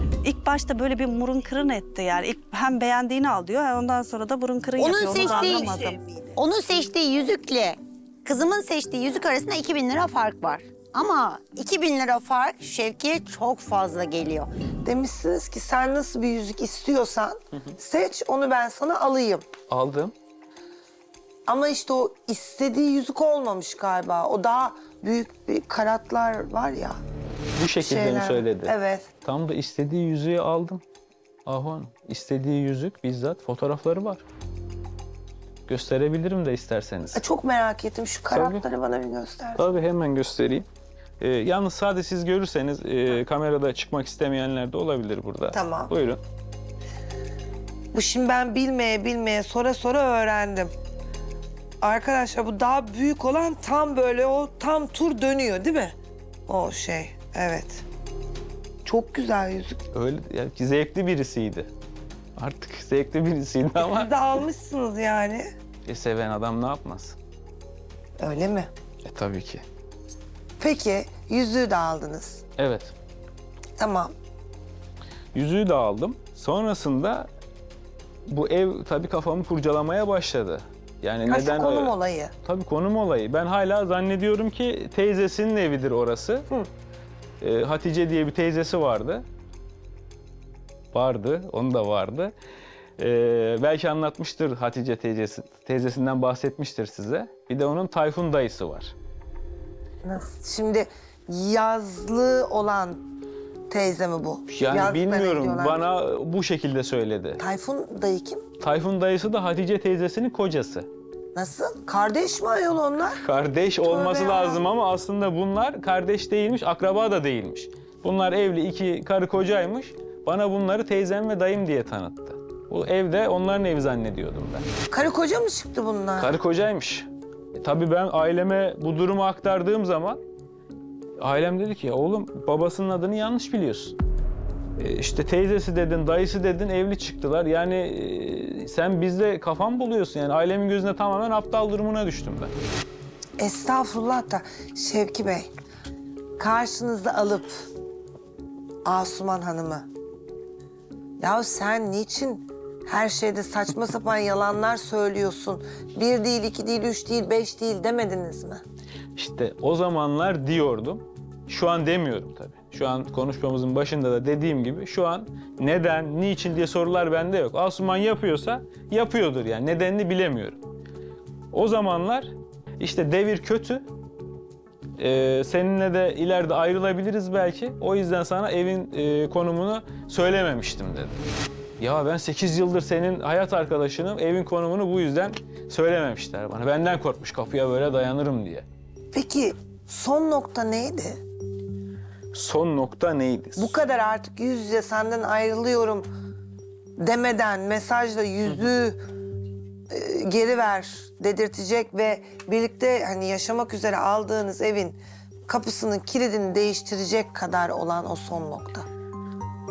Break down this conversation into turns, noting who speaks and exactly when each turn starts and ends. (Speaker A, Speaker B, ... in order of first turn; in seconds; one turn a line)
Speaker A: 0.2-6.0
Speaker B: 4.8-5.7
Speaker C: 5.2-6.3
Speaker B: 6.4-14.5
Speaker C: 14.8-19.5
Speaker D: 19.7-20.1
Speaker C: 21.5-27.0
Speaker D: 27.6-30.8
Speaker C: 27.8-29.1
Speaker D: 31.5-34.2
Speaker D: 35.7-37.2
Speaker C: 37.1-39.6
Speaker D: 38.3-38.6
Speaker D: 39.6-40.7
Speaker D: 41.2-46.2
Speaker C: 45.5-45.9
Speaker C: 47.9-50.7
Speaker C: 51.8-56.0
Speaker C: 56.5-57.9
Speaker C: 58.9-59.8
Speaker D: 59.9-61.7
Speaker D: 62.4-64.1
Speaker C: 63.8-65.5
Speaker D: 65.9-67.2
Speaker C: 68.2-68.7
Speaker D: 69.0-69.6
Speaker C: 70.6-72.4
Speaker D: 72.6-72.9
Speaker C: 73.8-74.1
Speaker D: 75.3-77.3
Speaker D: 78.3-86.5
Speaker C: 81.3-82.3
Speaker D: 87.4-89.2
Speaker D: 90.9-92.3
Speaker D: 93.0-98.9
Speaker C: 100.0-103.0
Speaker C: 103.7-105.9
Speaker D: 104.5-107.4
Speaker C: 107.4-108.5
Speaker D: 108.6-110.9
Speaker C: 111.3-113.2
Speaker D: 113.2-124.7
Speaker C: 113.8-114.6
Speaker C: 124.9-126.3
Speaker D: 126.2-127.1
Speaker D: 127.6-130.2
Speaker D: 131.2-133.9
Speaker D: 134.8-142.5
Speaker C: 143.4-145.5
Speaker C: 146.4-147.7
Speaker C: 148.8-149.9
Speaker C: 151.2-158.6
Speaker D: 159.2-170.6
Speaker D: 171.5-173.8
Speaker D: 175.0-181.2
Speaker D: 181.8-188.7
Speaker C: 189.1-191.2
Speaker D: 192.3-193.7
Speaker C: 193.6-196.1
Speaker C: 197.0-199.0
Speaker C: 199.9-208.9